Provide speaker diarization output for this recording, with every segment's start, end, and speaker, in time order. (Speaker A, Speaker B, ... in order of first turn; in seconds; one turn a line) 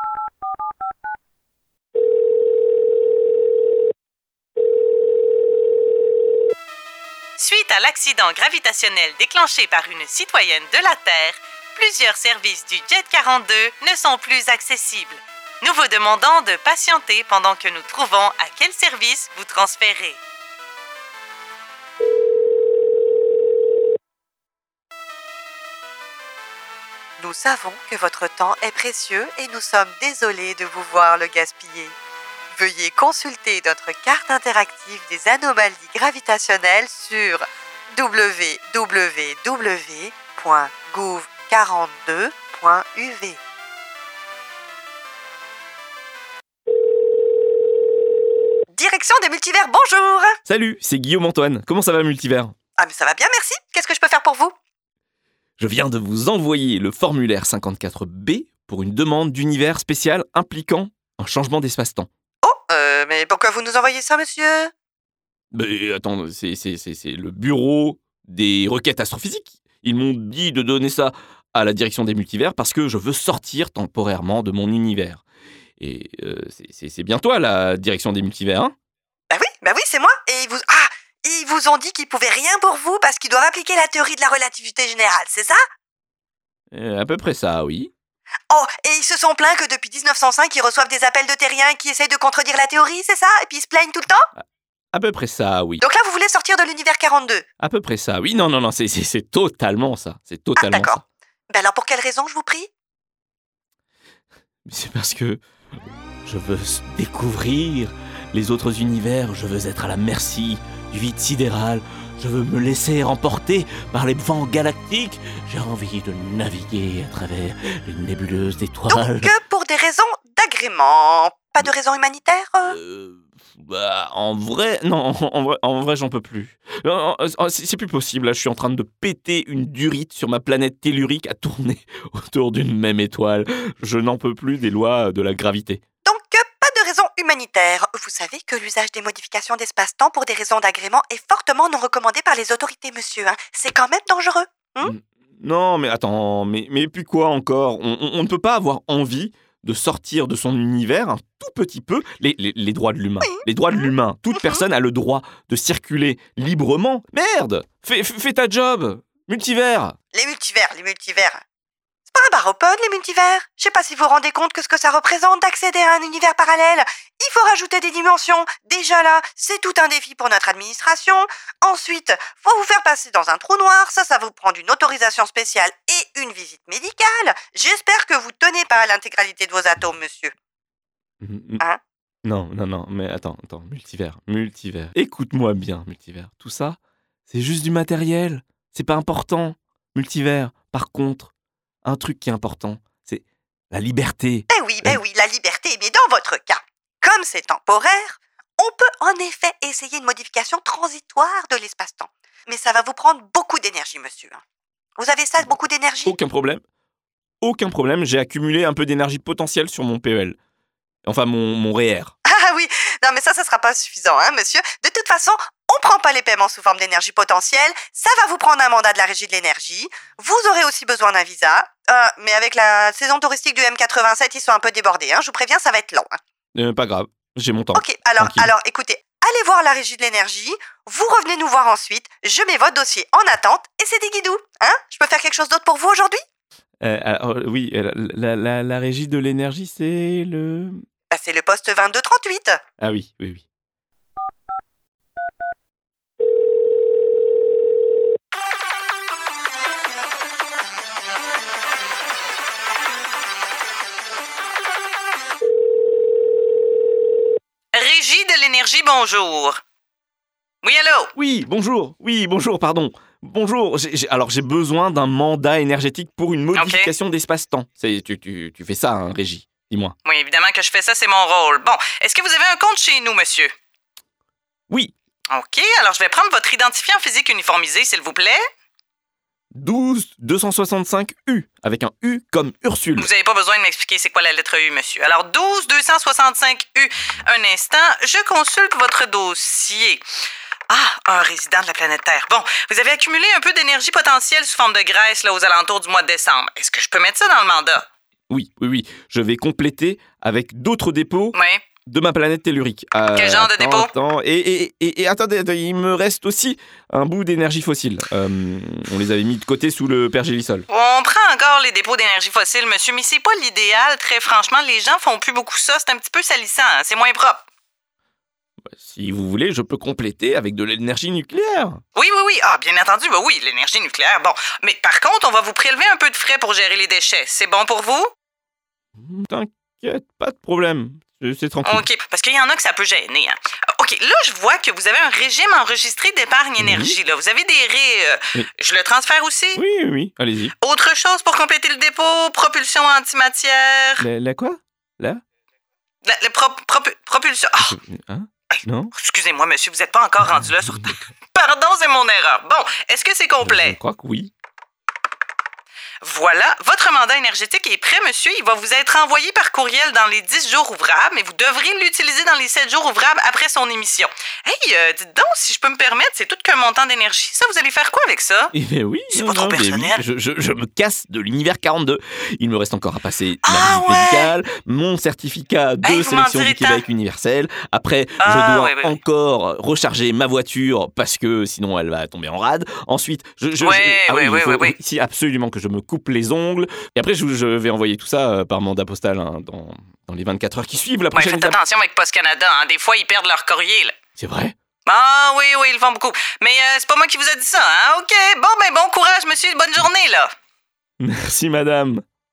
Speaker A: 7.4-20.2
Speaker B: 27.2-31.9
Speaker B: 32.5-37.4
Speaker B: 38.0-43.4
Speaker B: 48.7-50.4
Speaker C: 50.5-52.5
Speaker B: 52.8-54.5
Speaker C: 55.6-62.1
Speaker B: 62.4-64.7
Speaker C: 65.5-75.2
Speaker C: 75.8-78.7
Speaker B: 79.3-85.6
Speaker C: 86.7-87.9
Speaker B: 88.5-94.3
Speaker C: 94.9-95.8
Speaker B: 95.8-97.5
Speaker C: 97.6-101.0
Speaker B: 100.6-102.7
Speaker C: 104.7-105.4
Speaker C: 106.2-119.3
Speaker B: 118.9-122.8
Speaker C: 122.7-135.8
Speaker B: 136.1-144.9
Speaker C: 144.8-160.0
Speaker B: 153.2-154.6
Speaker B: 160.1-161.4
Speaker B: 162.1-180.3
Speaker C: 181.2-181.6
Speaker C: 182.2-191.3
Speaker C: 191.8-195.0
Speaker B: 194.5-204.4
Speaker B: 205.0-206.2
Speaker C: 206.1-206.6
Speaker C: 207.4-210.4
Speaker C: 211.1-212.1
Speaker B: 212.3-226.2
Speaker C: 226.6-228.5
Speaker B: 227.7-236.2
Speaker C: 236.8-240.8
Speaker B: 241.1-242.6
Speaker C: 242.8-243.4
Speaker A: 257.7-259.6
Speaker A: 260.6-261.1
Speaker C: 261.2-270.0
Speaker A: 266.6-266.9
Speaker A: 270.1-273.5
Speaker A: 275.3-278.4
Speaker C: 279.5-283.1
Speaker A: 283.0-290.0
Speaker A: 290.7-297.9
Speaker C: 298.3-310.7
Speaker A: 301.3-301.6
Speaker A: 303.1-303.9
Speaker A: 310.7-317.4
Speaker C: 318.7-321.8
Speaker A: 321.9-328.1
Speaker C: 329.0-331.9
Speaker A: 331.6-339.6
Speaker C: 336.6-337.0
Speaker C: 339.6-340.5
Speaker A: 340.6-344.1
Speaker C: 344.0-345.2
Speaker A: 346.1-347.7
Speaker C: 347.6-348.9
Speaker A: 348.5-353.8
Speaker C: 350.2-350.9
Speaker C: 353.4-354.3
Speaker A: 356.0-368.5
Speaker C: 368.5-391.6
Speaker A: 369.1-370.0
Speaker A: 373.4-374.3
Speaker A: 375.8-376.8
Speaker A: 378.2-378.9
Speaker A: 383.6-384.8
Speaker A: 391.1-393.9
Speaker C: 394.2-394.5
Speaker A: 394.9-400.3
Speaker C: 401.0-402.0